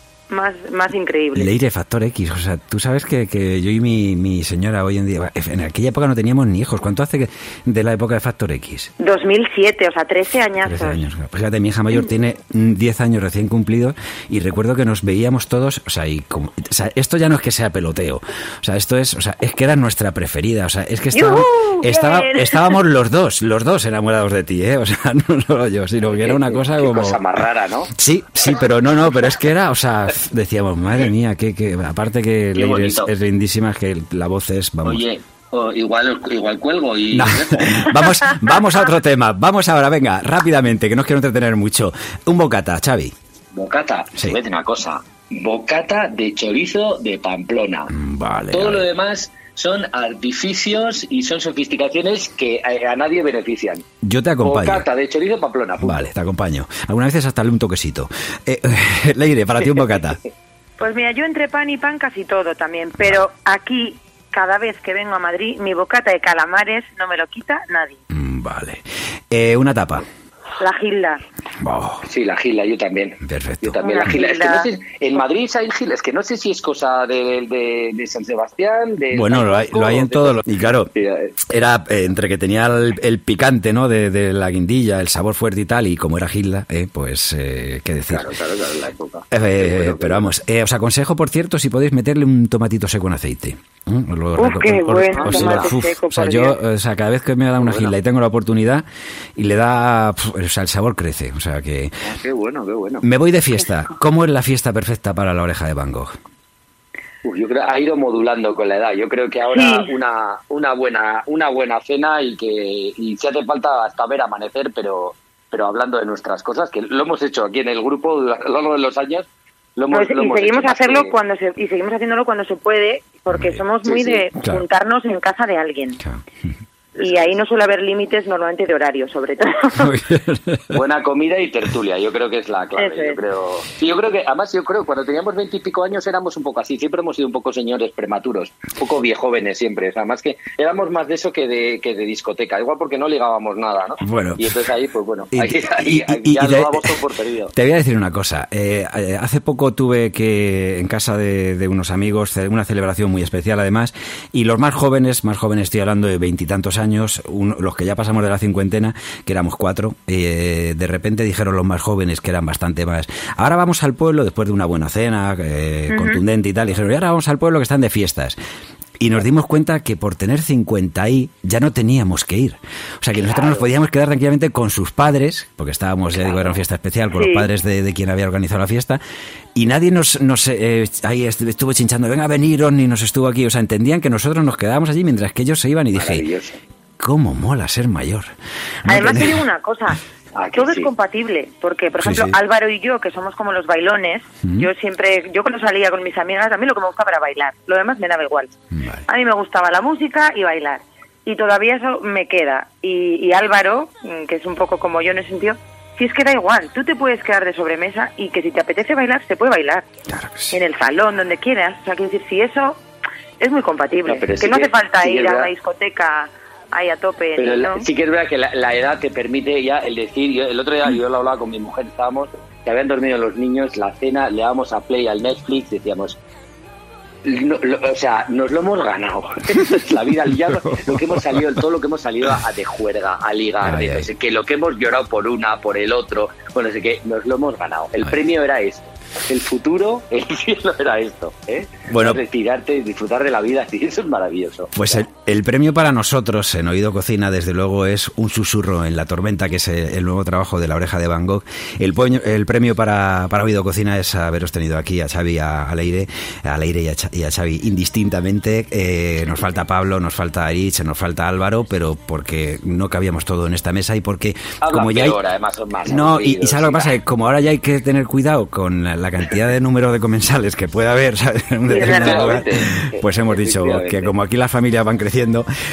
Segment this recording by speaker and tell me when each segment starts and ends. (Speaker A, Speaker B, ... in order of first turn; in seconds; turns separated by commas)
Speaker A: 0.3-1.5, Speaker B: 1.3-8.9, Speaker A: 9.0-11.0, Speaker B: 10.6-27.3, Speaker A: 21.1-22.8, Speaker C: 26.1-27.9, Speaker B: 28.0-35.0, Speaker C: 32.5-33.1, Speaker C: 34.8-38.2, Speaker B: 37.1-43.1, Speaker C: 43.5-47.9, Speaker B: 47.9-48.8, Speaker C: 48.5-53.8, Speaker B: 54.0-54.9, Speaker C: 54.4-56.0, Speaker B: 55.8-60.2, Speaker A: 60.8-68.0, Speaker B: 68.1-70.0, Speaker A: 70.6-71.2, Speaker B: 71.6-72.0, Speaker C: 72.0-80.4, Speaker B: 73.2-74.2, Speaker A: 73.8-74.7, Speaker B: 79.1-80.9, Speaker C: 80.9-81.3, Speaker B: 81.4-88.3, Speaker C: 88.1-90.3, Speaker B: 89.3-98.8, Speaker A: 94.4-96.6, Speaker C: 95.1-95.7, Speaker C: 97.6-97.9, Speaker B: 99.3-102.0, Speaker C: 102.0-103.1, Speaker B: 103.0-106.1, Speaker C: 107.2-121.1, Speaker A: 109.5-109.9, Speaker A: 119.9-126.0, Speaker B: 123.3-123.6, Speaker C: 123.8-124.3, Speaker B: 124.4-124.6, Speaker A: 127.0-129.9, Speaker C: 127.0-127.2, Speaker B: 129.8-130.8, Speaker C: 130.7-147.5, Speaker A: 132.8-133.2, Speaker B: 144.0-144.6, Speaker B: 145.3-146.9, Speaker B: 147.5-168.4, Speaker A: 165.9-166.2, Speaker B: 169.0-179.0, Speaker C: 176.2-176.5, Speaker A: 177.1-177.4, Speaker B: 179.5-186.2, Speaker C: 185.9-186.6, Speaker B: 187.0-188.3, Speaker B: 188.8-189.4, Speaker A: 188.9-190.0, Speaker C: 190.3-190.9, Speaker A: 190.5-198.5, Speaker B: 192.0-192.3, Speaker B: 194.4-194.7, Speaker B: 198.7-199.0, Speaker A: 199.1-209.8, Speaker B: 210.1-210.6, Speaker A: 210.5-212.8, Speaker A: 213.4-217.9, Speaker C: 214.1-215.5, Speaker C: 217.4-226.2, Speaker C: 227.2-245.0, Speaker B: 229.6-229.9, Speaker B: 230.5-231.6, Speaker B: 233.6-234.1, Speaker B: 241.9-242.2, Speaker B: 244.7-265.2, Speaker C: 264.6-266.9, Speaker B: 265.9-275.5, Speaker C: 271.7-274.1, Speaker A: 271.8-272.4